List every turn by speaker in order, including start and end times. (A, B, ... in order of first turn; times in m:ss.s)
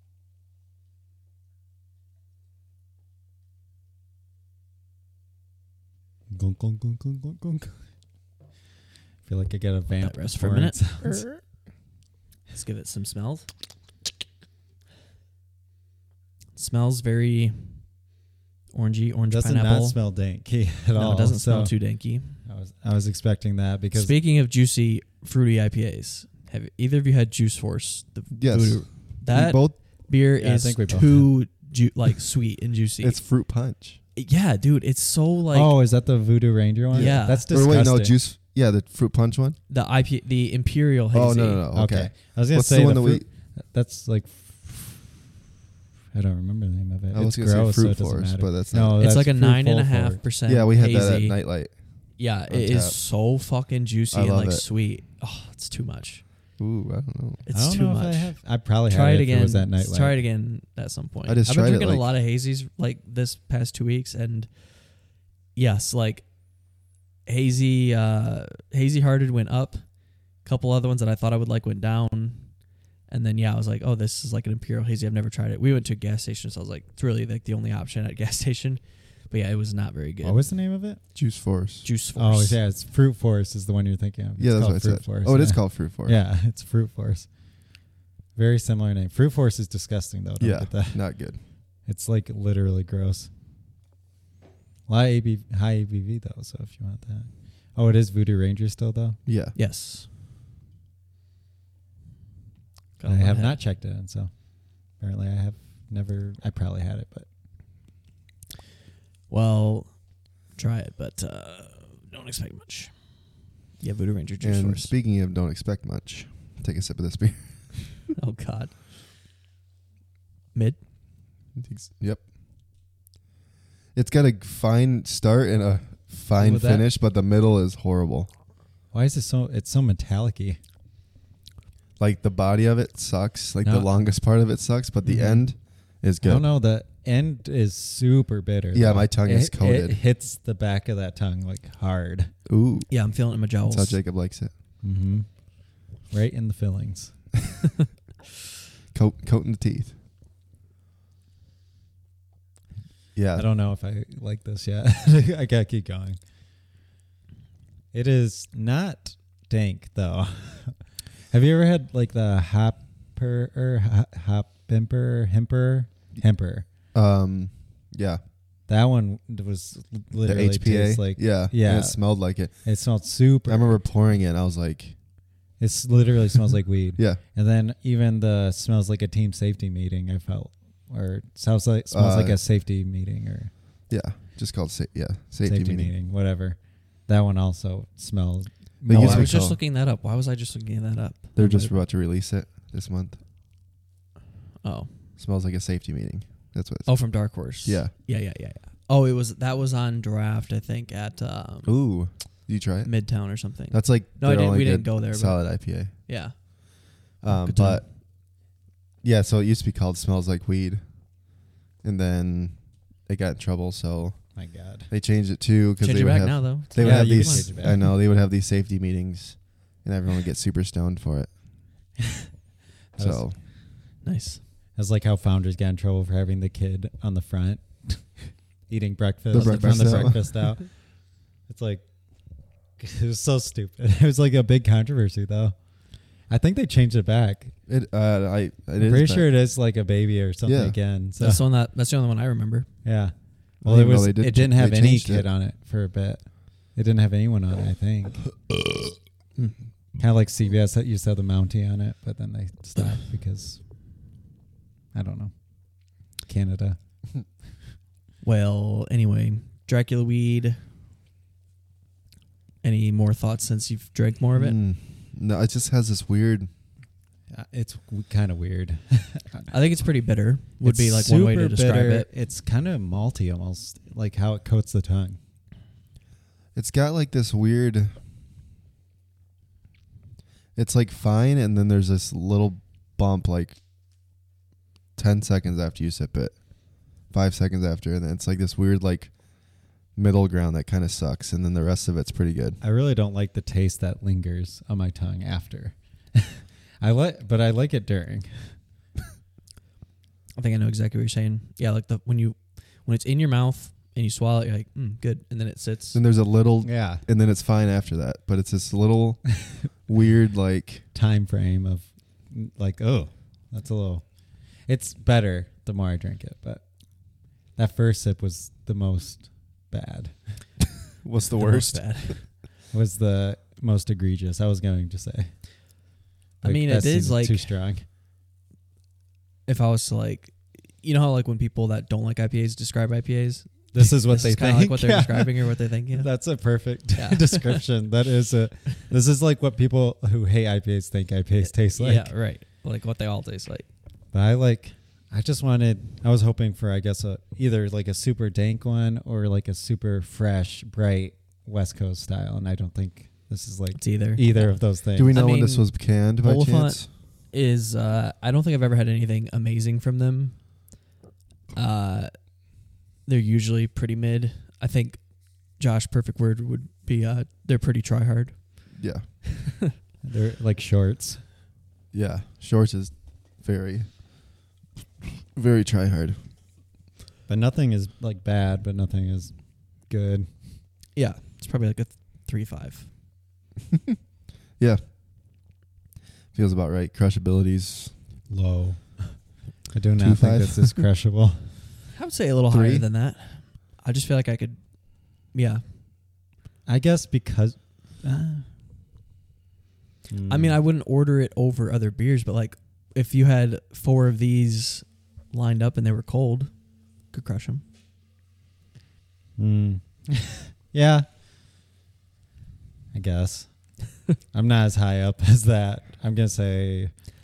0:06.3-0:07.8 A
0:09.2-0:11.3 A
0:10.0-0:10.8 B
0:12.5-0:13.5 B
0:16.6-0:17.9 B
0:18.7-0:20.0 B
0:19.3-0:21.7 A
0:20.9-0:22.4 B
0:22.3-0:24.1 A
0:23.9-0:33.2 B
0:28.3-0:29.8 C
0:30.4-0:31.3 A
0:33.0-0:34.0 C
0:34.2-0:35.8 B
0:35.5-0:38.2 A
0:36.9-0:39.6 C
0:36.9-0:37.5 B
0:39.7-0:41.6 B
0:41.1-0:43.3 C
0:41.7-0:45.2 A
0:46.1-0:50.2 A
0:47.1-0:48.9 C
0:49.0-0:51.4 B
0:50.4-0:53.0 C
0:52.1-0:56.2 B
0:54.1-0:54.6 C
0:56.6-0:57.4 C
0:57.4-1:06.3 B
0:57.5-1:00.2 A
1:01.2-1:02.2 C
1:07.2-1:09.8 B
1:10.4-1:12.5 B
1:13.1-1:20.4 B
1:20.2-1:21.0 A
1:21.1-1:21.9 C
1:21.8-1:22.6 B
1:22.2-1:27.3 A
1:24.4-1:26.2 C
1:28.3-1:31.0 A
1:30.4-1:31.4 C
1:31.8-1:33.3 A
1:34.9-1:39.2 A
1:39.2-1:39.5 C
1:39.5-1:40.1 B
1:43.0-1:43.6 B
1:43.0-1:47.3 A
1:49.3-1:54.9 B
1:54.4-1:58.0 C
1:58.2-1:58.8 B
2:00.5-2:00.8 B
2:01.6-2:02.3 C
2:03.9-2:08.3 C
2:06.4-2:06.9 B
2:08.9-2:10.6 A
2:12.0-2:16.5 C
2:15.0-2:15.5 B
2:16.2-2:22.3 A
2:18.7-2:20.0 C
2:22.5-2:22.9 C
2:22.9-2:24.0 B
2:23.6-2:24.5 C
2:24.8-2:27.1 A
2:28.9-2:29.9 C
2:33.1-2:33.4 C
2:33.3-2:36.2 A
2:37.9-2:46.7 A
2:46.9-2:48.2 C
2:48.7-2:52.1 A
2:50.2-2:52.8 C
2:52.6-2:53.8 A
2:53.4-2:55.0 C
2:55.6-3:03.5 A
3:01.9-3:02.4 C
3:03.9-3:05.9 C
3:05.4-3:09.4 A
3:08.8-3:09.6 C
3:08.9-3:11.8 B
3:11.4-3:13.2 C
3:14.6-3:14.9 B
3:15.2-3:17.9 C
3:16.8-3:21.8 B
3:21.6-3:26.4 C
3:22.8-3:27.8 B
3:27.2-3:27.9 C
3:29.0-3:31.3 C
3:31.8-3:41.3 C
3:34.4-3:34.9 A
3:35.8-3:37.9 B
3:36.8-3:37.8 A
3:42.9-3:43.2 A
3:43.0-3:43.4 C
3:44.0-3:44.4 B
3:44.8-3:50.8 A
3:49.3-3:50.4 C
3:49.3-3:50.2 B
3:51.5-3:51.8 A
3:52.8-3:55.6 A
3:56.3-3:57.5 A
3:57.7-3:59.3 C
3:58.8-4:01.4 A
4:00.4-4:00.8 C
4:01.2-4:02.7 B
4:02.8-4:08.2 A
4:03.6-4:05.3 C
4:10.0-4:13.6 A
4:14.9-4:15.3 A
4:16.2-4:16.8 A
4:18.2-4:20.6 B
4:22.6-4:24.6 B
4:24.3-4:26.5 C
4:27.3-4:29.5 A
4:29.5-4:32.1 B
4:30.6-4:35.2 A
4:36.5-4:38.0 C
4:40.6-4:43.6 C
4:45.0-4:49.2 C
4:49.9-4:52.6 C
4:52.6-4:58.5 A
5:00.4-5:06.0 B
5:05.9-5:10.8 C
5:06.6-5:07.0 A
5:10.9-5:14.1 A
5:14.6-5:16.6 A
5:17.5-5:20.5 A
5:21.0-5:22.2 C
5:21.4-5:22.2 B
5:22.7-5:25.3 A
5:26.4-5:27.8 A
5:26.4-5:27.5 B
5:29.4-5:36.1 B
5:33.7-5:42.1 A
5:36.9-5:37.6 B
5:41.7-5:43.7 B
5:44.1-5:55.2 A
5:53.7-5:54.6 B
5:54.9-5:56.9 C
5:55.1-6:00.4 B
6:01.5-6:02.1 B
6:03.0-6:08.6 B
6:08.8-6:09.0 C
6:10.0-6:11.2 A
6:11.9-6:14.4 C
6:15.3-6:16.2 C
6:17.3-6:20.3 A
6:20.9-6:22.9 B
6:26.3-6:27.9 C
6:28.3-6:31.6 A
6:30.0-6:30.8 C
6:31.9-6:35.6 B
6:32.5-6:32.8 C
6:36.6-6:38.5 A
6:40.1-6:40.6 A
6:40.3-6:47.6 B
6:49.4-6:51.0 A
6:52.9-6:56.9 A